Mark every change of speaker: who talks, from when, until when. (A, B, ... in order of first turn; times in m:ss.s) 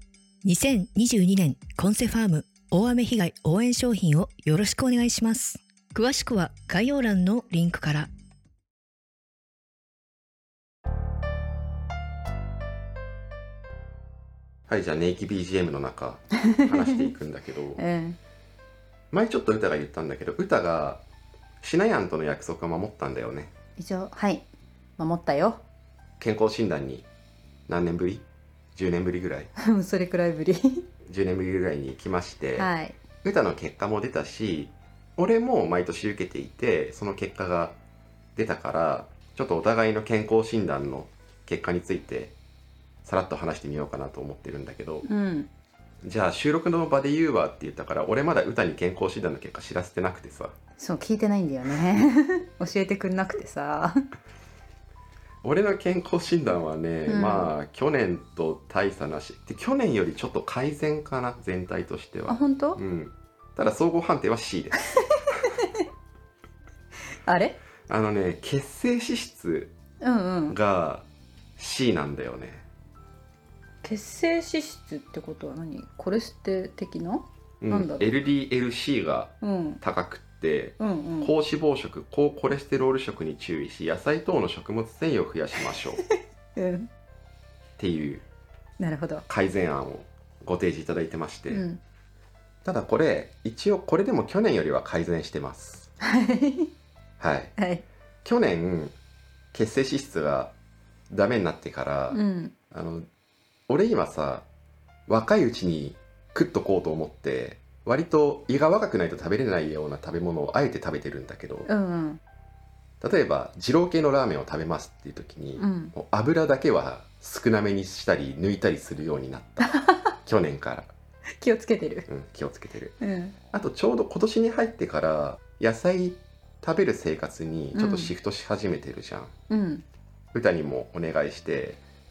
0:00.4-0:08.1 A
0:14.7-0:17.8 B
0:16.5-0:17.0 C
0:17.8-0:18.2 C
0:19.1-0:21.0 B
0:21.6-0:23.5 B
0:23.8-0:25.6 C
0:26.2-0:27.0 B
0:27.7-0:29.5 B
0:29.6-0:30.9 C
0:31.0-0:32.7 B
0:32.6-0:33.0 C
0:33.2-0:37.8 B
0:38.4-0:42.3 B
0:43.0-0:45.1 B
0:45.0-0:45.5 C
0:46.0-0:50.5 B
0:50.8-0:54.0 C
0:55.4-1:05.4 B
0:57.1-0:57.5 C
1:02.3-1:02.8 C
1:07.2-1:07.6 C
1:07.9-1:09.7 B
1:10.0-1:10.6 C
1:10.5-1:11.0 B
1:11.6-1:12.6 B
1:13.8-1:18.1 C
1:17.6-1:26.0 B
1:19.4-1:19.8 C
1:20.8-1:21.3 C
1:26.6-1:26.9 C
1:27.8-1:28.2 B
1:28.8-1:29.2 C
1:29.3-1:31.6 B
1:31.5-1:31.8 C
1:32.6-1:35.9 B
1:36.0-1:36.7 C
1:37.2-1:37.5 B
1:37.6-1:37.8 C
1:38.2-1:38.9 B
1:39.5-1:40.5 B
1:41.1-1:43.1 B
1:42.1-1:42.5 C
1:43.7-1:44.4 B
1:45.1-1:51.7 B
1:51.7-1:52.2 C
1:53.0-2:00.9 B
1:55.6-1:55.9 C
1:59.6-2:00.0 C
2:01.4-2:02.1 C
2:02.1-2:03.0 B
2:03.0-2:03.4 C
2:03.5-2:09.3 B
2:07.7-2:08.1 C
2:09.5-2:09.8 C
2:10.3-2:11.8 B